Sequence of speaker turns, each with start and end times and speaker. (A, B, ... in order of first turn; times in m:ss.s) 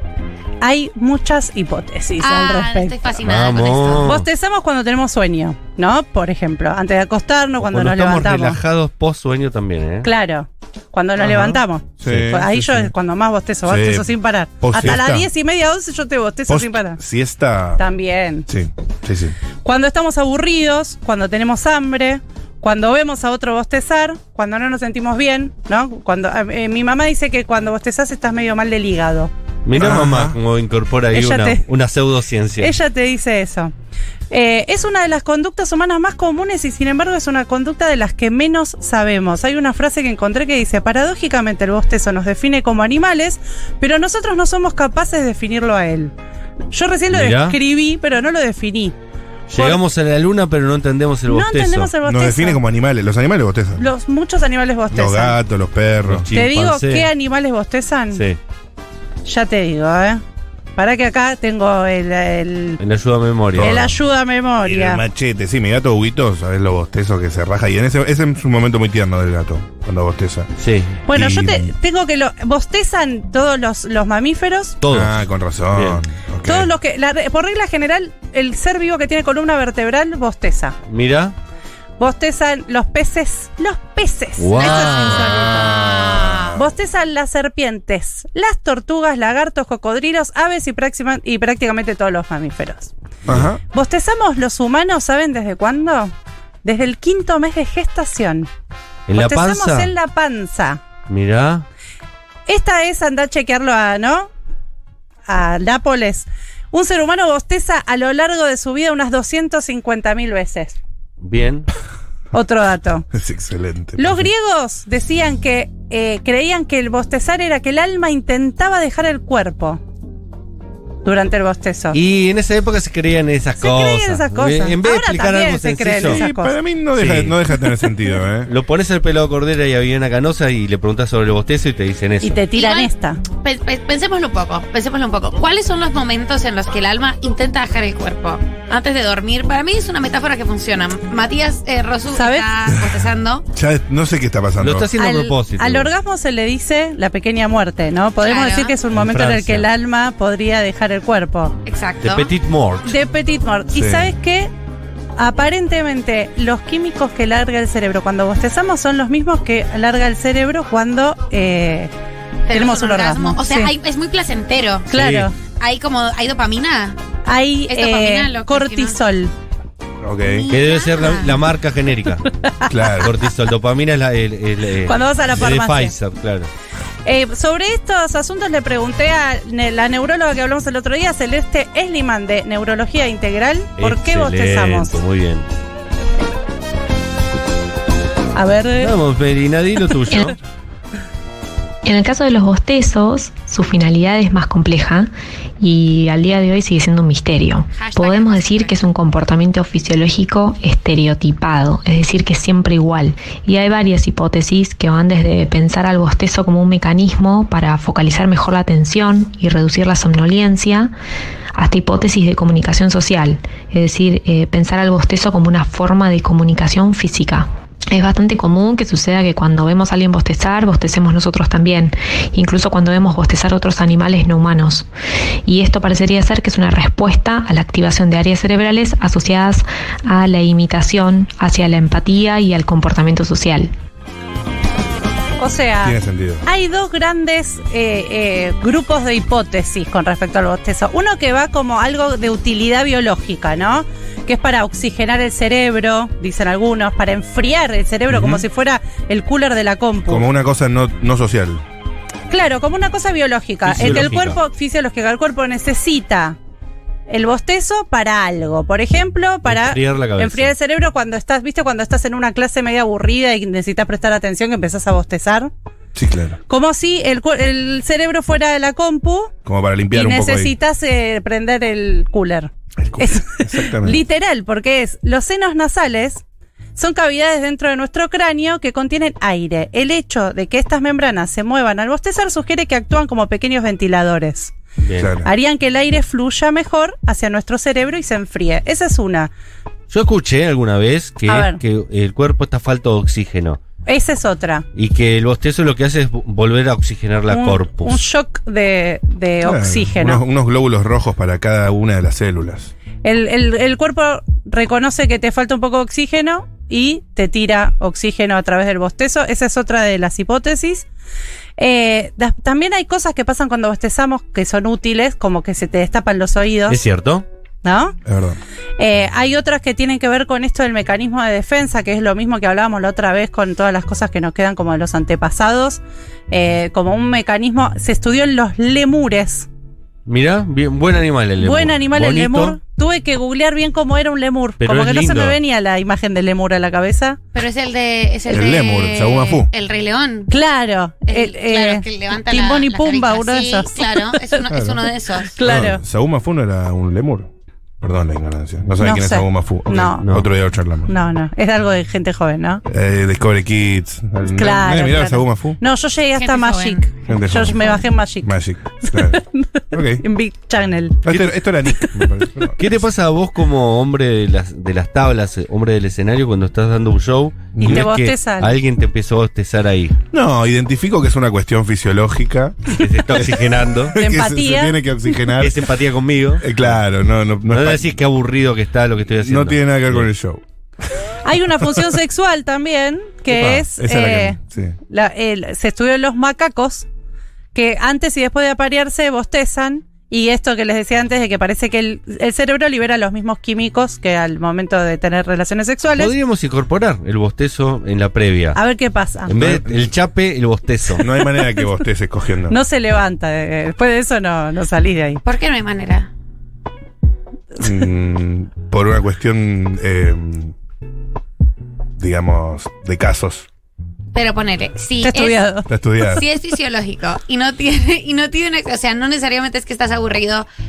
0:00.6-0:02.9 A
0:02.2-0:04.1 B
0:03.2-0:04.2 C
0:04.0-0:08.6 A
0:07.6-0:10.1 C
0:10.0-0:17.0 A
0:11.2-0:12.9 D
0:13.6-0:15.3 D
0:16.5-0:17.8 D
0:17.8-0:18.5 A
0:18.5-0:19.4 D
0:19.6-0:29.3 A
0:29.6-0:32.7 C
0:29.8-0:30.4 D
0:31.1-0:31.6 A
0:32.6-0:33.7 A
0:34.3-0:46.1 A
0:46.7-0:48.9 A
0:47.1-0:47.6 C
0:49.5-0:51.9 C
0:49.5-0:49.8 A
0:51.3-0:52.6 A
0:52.0-0:53.9 D
0:53.8-0:55.4 A
0:54.9-0:56.3 D
0:56.1-0:57.1 C
0:56.3-0:58.2 A
0:58.1-0:58.4 C
0:59.2-1:00.2 A
1:00.8-1:02.8 A
1:02.8-1:03.8 C
1:03.5-1:03.9 D
1:03.6-1:05.0 A
1:04.6-1:10.5 D
1:10.6-1:11.0 C
1:11.1-1:14.8 A
1:11.1-1:11.7 D
1:14.8-1:15.2 C
1:14.9-1:16.7 D
1:15.7-1:16.0 C
1:16.4-1:20.8 A
1:20.9-1:21.3 C
1:22.0-1:25.8 A
1:24.4-1:25.3 C
1:24.6-1:25.1 B
1:24.9-1:26.7 D
1:26.0-1:26.4 B
1:26.5-1:32.9 A
1:33.2-1:33.6 D
1:33.7-1:36.1 A
1:36.6-1:38.5 A
1:39.1-1:39.9 C
1:39.1-1:40.8 A
1:41.1-1:41.6 C
1:42.5-1:44.3 A
1:45.3-1:50.8 A
1:51.2-1:51.7 C
1:52.3-1:53.1 A
1:53.1-1:54.3 D
1:54.0-1:59.8 A
2:01.0-2:02.0 A
2:01.9-2:06.2 C
2:03.6-2:06.6 A
2:06.0-2:08.5 D
2:07.0-2:07.4 C
2:08.5-2:12.4 C
2:12.2-2:13.2 A
2:12.5-2:23.4 B
2:22.1-2:22.5 A
2:23.5-2:24.9 D
2:24.6-2:25.9 C
2:25.0-2:31.6 A
2:28.2-2:28.8 B
2:28.9-2:29.7 C
2:31.6-2:32.3 B
2:32.0-2:32.9 C
2:32.8-2:34.5 A
2:33.7-2:34.1 D
2:35.2-2:41.9 A
2:42.5-2:44.9 B
2:42.5-2:43.7 A
2:44.9-2:45.3 A
2:44.9-2:45.3 C
2:45.5-2:47.0 B
2:47.2-2:49.3 A
2:47.7-2:49.0 B
2:50.0-2:50.5 D
2:50.2-2:51.4 B
2:50.5-2:52.3 C
2:52.4-2:52.7 A
2:52.7-2:53.1 D
2:53.0-2:56.5 C
2:54.9-2:55.9 A
2:57.0-3:05.0 A
3:03.8-3:05.4 C
3:08.4-3:08.9 A
3:08.8-3:10.4 C
3:11.8-3:30.9 E
3:17.7-3:18.8 B
3:31.5-3:44.9 E
3:45.4-3:53.7 E
3:55.4-4:10.2 A
3:55.8-3:56.4 D
4:08.1-4:08.4 D
4:10.1-4:11.6 D
4:12.3-4:16.4 A
4:13.6-4:14.4 C
4:17.1-4:25.5 A
4:19.4-4:20.5 C
4:25.9-4:26.4 D
4:26.5-4:29.3 A
4:29.4-4:30.5 D
4:29.9-4:36.2 A
4:32.8-4:34.0 D
4:36.8-4:44.5 A
4:44.8-4:45.1 C
4:45.0-4:45.3 D
4:45.2-4:49.3 A
4:49.9-4:53.6 C
4:51.3-4:51.6 A
4:53.9-4:54.6 A
4:54.8-4:58.0 C
4:57.3-5:00.2 A
4:59.4-5:02.7 D
5:03.0-5:10.9 A
5:11.6-5:16.8 A
5:16.7-5:17.2 C
5:17.6-5:18.0 A
5:18.0-5:18.4 D
5:18.8-5:29.5 A
5:30.0-5:32.6 C
5:31.4-5:37.2 A
5:34.6-5:35.4 C
5:37.3-5:40.3 B
5:38.3-5:39.5 D
5:40.3-5:44.4 A
5:41.1-5:45.3 B
5:44.5-5:44.9 D
5:45.3-5:45.8 A
5:45.4-5:47.3 D
5:47.8-5:50.9 D
5:48.8-5:50.0 A
5:50.9-5:52.6 A
5:52.6-5:55.6 D
5:54.4-6:01.0 A
5:56.1-5:57.0 B
5:57.1-6:00.0 D
6:01.0-6:02.8 D
6:02.6-6:10.0 C
6:07.6-6:07.9 D
6:07.6-6:08.6 A
6:10.1-6:15.7 D
6:12.8-6:14.0 C
6:13.9-6:14.8 A
6:15.4-6:16.7 C
6:16.4-6:18.0 D
6:17.5-6:20.1 C
6:19.2-6:20.4 D
6:21.2-6:26.9 A
6:21.6-6:21.8 D
6:23.3-6:24.8 D
6:27.5-6:36.1 A
6:35.9-6:38.6 C
6:38.5-6:39.3 A
6:39.3-6:41.0 C
6:39.3-6:39.9 D
6:41.0-6:42.6 D
6:42.5-6:45.2 A
6:45.2-6:46.1 B
6:47.6-6:50.5 D
6:52.0-6:53.5 D
6:54.1-6:55.5 B
6:55.0-6:55.7 A
6:55.7-6:56.2 D
6:56.0-7:00.5 B